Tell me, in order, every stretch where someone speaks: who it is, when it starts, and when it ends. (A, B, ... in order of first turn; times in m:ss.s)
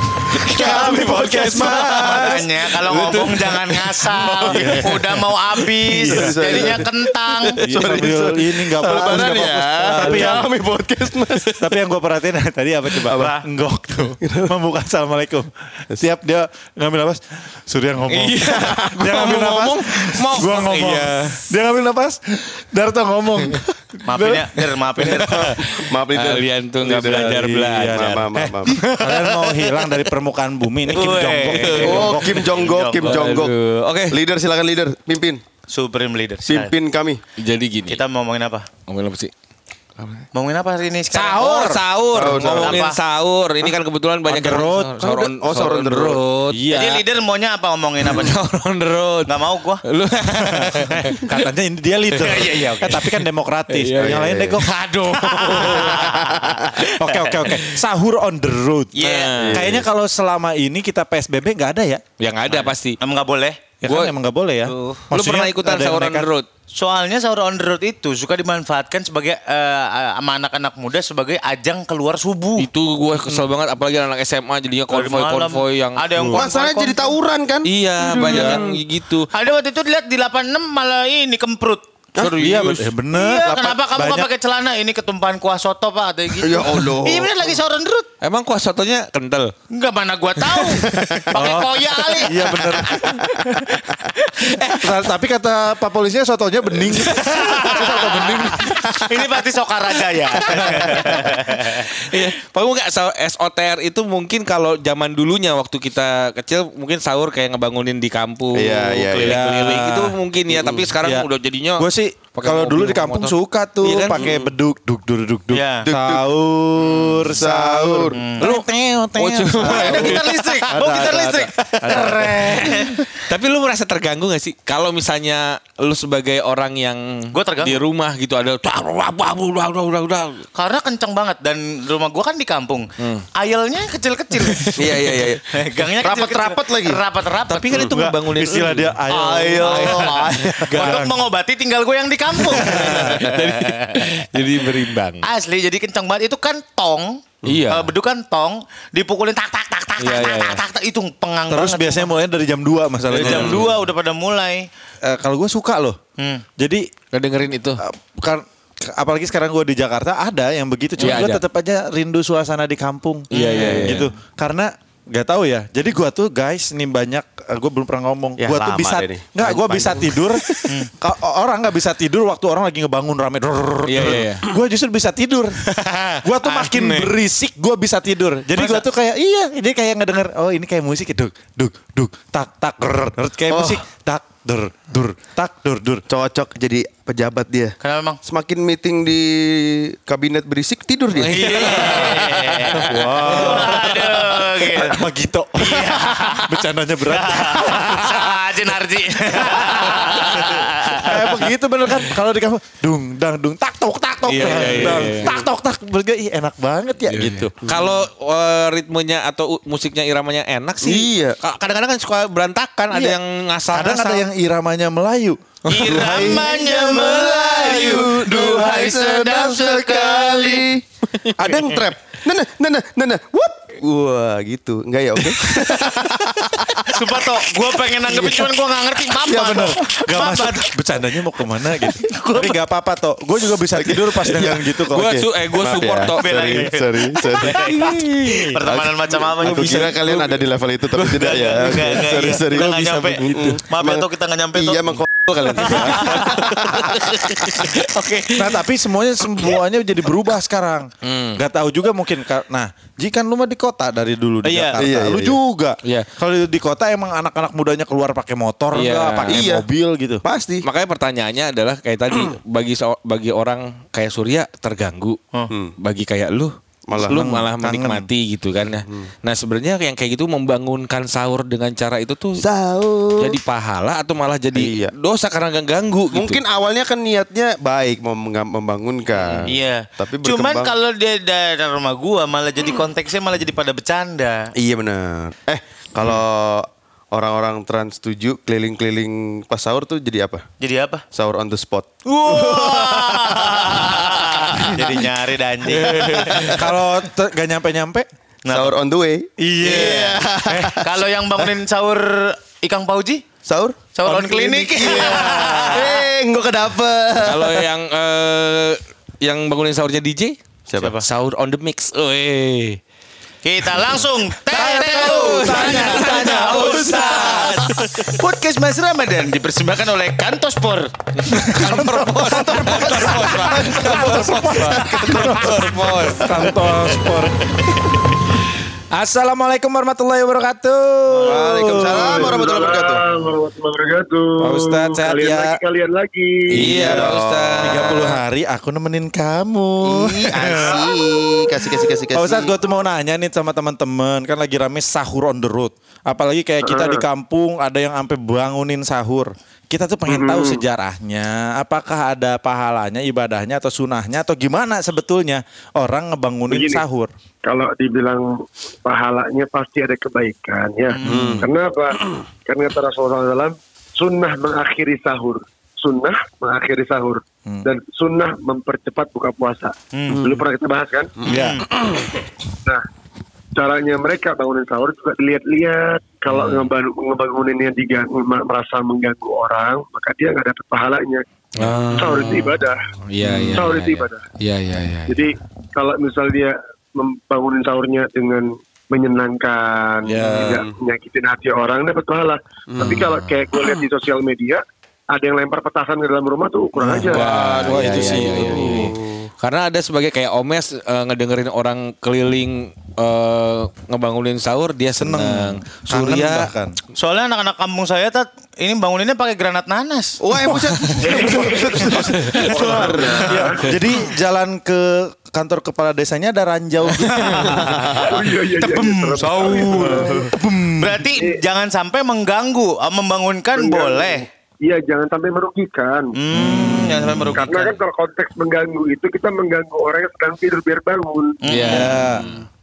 0:00.3-0:11.6 A
0:00.5-0:02.4 B
0:00.5-0:01.8 C
0:01.9-0:07.6 D
0:04.5-0:05.2 B
0:05.9-0:06.8 B
0:07.6-0:10.5 B
0:11.6-0:24.5 B
0:13.1-0:13.4 A
0:14.2-0:14.5 A
0:18.1-0:21.5 C
0:24.1-0:25.4 D
0:25.0-0:30.0 C
0:25.2-0:28.8 A
0:27.0-0:32.6 B
0:30.9-0:33.2 D
0:31.6-0:33.5 A
0:32.9-0:34.2 C
0:34.1-0:35.4 A
0:35.7-0:36.7 D
0:36.4-0:37.2 A
0:37.4-0:38.0 C
0:37.9-0:38.7 D
0:38.9-0:39.3 C
0:40.0-0:40.2 C
0:40.3-0:41.7 D
0:41.1-0:46.7 C
0:41.4-0:41.8 B
0:42.1-0:42.8 A
0:42.4-0:43.0 D
0:44.3-0:45.0 B
0:45.1-0:46.3 A
0:46.5-0:47.0 B
0:46.7-0:48.4 D
0:48.0-0:49.3 C
0:49.3-0:49.8 D
0:49.8-0:51.3 C
0:50.4-0:56.2 B
0:52.1-0:56.1 C
0:52.4-0:52.8 D
0:54.0-0:54.6 A
0:55.0-0:56.9 D
0:56.8-0:57.8 C
0:57.0-0:59.0 B
0:59.0-0:59.3 D
0:59.0-0:59.7 C
0:59.4-0:59.9 A
0:59.5-1:02.0 B
1:02.2-1:03.0 C
1:02.5-1:03.6 D
1:03.8-1:06.3 B
1:03.8-1:04.1 C
1:04.7-1:05.1 D
1:05.1-1:06.5 C
1:06.7-1:12.7 D
1:12.6-1:16.0 C
1:14.9-1:17.2 D
1:16.3-1:18.6 A
1:17.6-1:19.3 C
1:19.3-1:21.9 D
1:22.2-1:22.9 C
1:22.3-1:24.3 B
1:23.1-1:28.1 D
1:26.4-1:27.3 A
1:28.2-1:29.5 C
1:29.7-1:33.2 D
1:30.4-1:31.1 C
1:31.4-1:33.9 B
1:33.8-1:34.5 D
1:34.5-1:35.0 C
1:34.7-1:38.8 B
1:36.8-1:38.8 C
1:37.3-1:41.9 D
1:40.3-1:54.5 C
1:48.5-1:49.4 A
1:49.2-1:50.2 B
1:50.5-1:50.9 A
1:51.0-2:02.9 B
1:55.5-1:55.9 D
1:55.8-1:56.3 A
1:57.4-1:58.2 A
1:58.1-1:58.5 D
1:59.2-2:00.7 C
1:59.6-2:03.0 D
2:02.0-2:10.5 C
2:07.3-2:07.8 D
2:10.5-2:14.8 D
2:14.4-2:15.3 C
2:14.8-2:15.4 A
2:15.5-2:17.8 D
2:16.0-2:17.0 A
2:17.5-2:19.0 C
2:17.8-2:21.2 B
2:19.1-2:21.0 A
2:19.6-2:24.1 D
2:22.4-2:23.1 B
2:22.7-2:25.2 C
2:22.8-2:23.2 A
2:25.2-2:32.1 D
2:27.4-2:27.9 C
2:30.0-2:30.6 C
2:31.5-2:33.7 B
2:33.1-2:34.7 D
2:33.2-2:33.6 C
2:35.0-2:36.0 B
2:36.2-2:36.4 D
2:36.6-2:36.9 B
2:37.1-2:37.8 C
2:37.8-2:55.6 B
2:41.0-2:41.4 C
2:43.3-2:44.1 D
2:43.3-2:44.1 C
2:48.4-2:50.2 A
2:50.6-2:50.9 D
2:53.9-2:54.5 C
2:55.7-2:57.1 C
2:56.2-3:06.0 B
2:58.6-2:58.8 D
3:03.5-3:03.8 A
3:06.1-3:11.7 A
3:07.8-3:08.2 D
3:11.1-3:13.6 C
3:11.4-3:15.0 D
3:12.8-3:18.4 B
3:15.6-3:21.2 D
3:19.3-3:27.5 B
3:24.3-3:25.4 C
3:27.1-3:34.3 C
3:30.8-3:31.4 A
3:32.9-3:33.2 B
3:33.7-3:36.4 B
3:35.7-3:40.7 D
3:35.7-3:36.3 C
3:35.9-3:40.8 A
3:41.4-3:41.9 C
3:41.4-3:47.3 A
3:46.8-3:52.6 D
3:48.0-3:48.6 A
3:49.1-3:49.6 A
3:49.3-3:55.2 B
3:53.7-3:57.6 A
3:54.9-3:56.7 C
3:55.8-3:59.9 D
3:57.4-3:58.6 C
3:58.6-4:07.1 A
3:59.4-4:01.5 C
4:01.2-4:07.8 D
4:05.5-4:06.0 C
4:07.2-4:08.7 C
4:08.3-4:20.2 B
4:11.0-4:11.4 C
4:14.4-4:14.8 D
4:14.8-4:15.4 A
4:18.7-4:19.5 C
4:19.3-4:19.7 A
4:20.2-4:20.7 A
4:20.6-4:25.2 C
4:25.8-4:32.4 C
4:26.9-4:27.2 A
4:27.1-4:28.1 B
4:32.4-4:33.4 A
4:33.2-4:36.4 C
4:34.5-4:34.9 A
4:36.1-4:40.8 A
4:39.2-4:39.5 C
4:39.4-4:44.4 D
4:44.6-4:50.4 A
4:50.6-4:51.0 D
4:51.1-4:53.9 A
4:52.1-4:56.5 D
4:54.5-4:54.9 A
4:55.8-4:56.7 A
4:55.9-4:56.6 C
4:56.3-4:58.1 B
4:58.4-4:58.8 D
4:58.5-5:00.9 A
4:59.4-5:00.8 B
4:59.6-5:00.2 D
5:00.8-5:03.2 D
5:03.4-5:07.7 A
5:04.0-5:06.1 D
5:07.2-5:10.4 C
5:10.7-5:10.9 A
5:10.8-5:11.1 D
5:10.9-5:12.8 C
5:13.4-5:20.9 D
5:14.5-5:17.6 B
5:14.7-5:18.1 C
5:21.2-5:26.6 C
5:21.4-5:27.4 B
5:22.4-5:26.1 A
5:23.2-5:24.0 D
5:28.9-5:32.4 B
5:31.1-5:31.4 D
5:31.2-5:33.0 A
5:32.1-5:37.0 E
5:34.4-5:35.6 B
5:36.5-5:38.2 C
5:36.6-5:37.9 A
5:36.6-5:40.9 B
5:39.8-5:42.6 A
5:42.1-5:57.1 B
5:46.6-5:47.0 E
5:50.1-5:50.6 E
5:56.5-5:56.8 E
5:57.4-5:58.3 E
5:58.8-6:02.0 E
6:01.0-6:01.5 B
6:01.0-6:01.5 A
6:02.5-6:11.2 E
6:09.9-6:10.2 D
6:11.3-6:11.6 B
6:11.3-6:11.7 D
6:13.6-6:21.2 E
6:16.3-6:16.7 C
6:21.6-6:25.3 C
6:22.0-6:22.8 E
6:23.2-6:23.7 B
6:23.6-6:24.2 E
6:25.1-6:34.6 E
6:30.0-6:30.6 B
6:30.2-6:30.8 A
6:32.7-6:33.1 A
6:32.8-6:33.7 C
6:35.1-6:37.9 E
6:36.8-6:38.3 B
6:37.0-6:46.5 C
6:37.1-6:39.3 A
6:44.9-6:46.8 B
6:46.9-6:50.2 D
6:50.2-6:53.2 A
6:50.5-6:51.2 C
6:50.9-6:53.6 E
6:51.2-6:51.8 D
6:52.0-6:53.1 C
6:52.6-6:57.6 B
6:53.1-6:53.4 D
6:56.9-7:00.2 D
6:57.6-6:58.2 A
6:58.2-7:00.3 E
6:59.7-7:01.1 B
7:00.8-7:04.2 D
7:03.6-7:06.1 E
7:06.2-7:07.8 D
7:06.3-7:07.5 B
7:07.5-7:11.4 E
7:11.4-7:11.9 D
7:11.5-7:12.3 C
7:11.7-7:12.3 B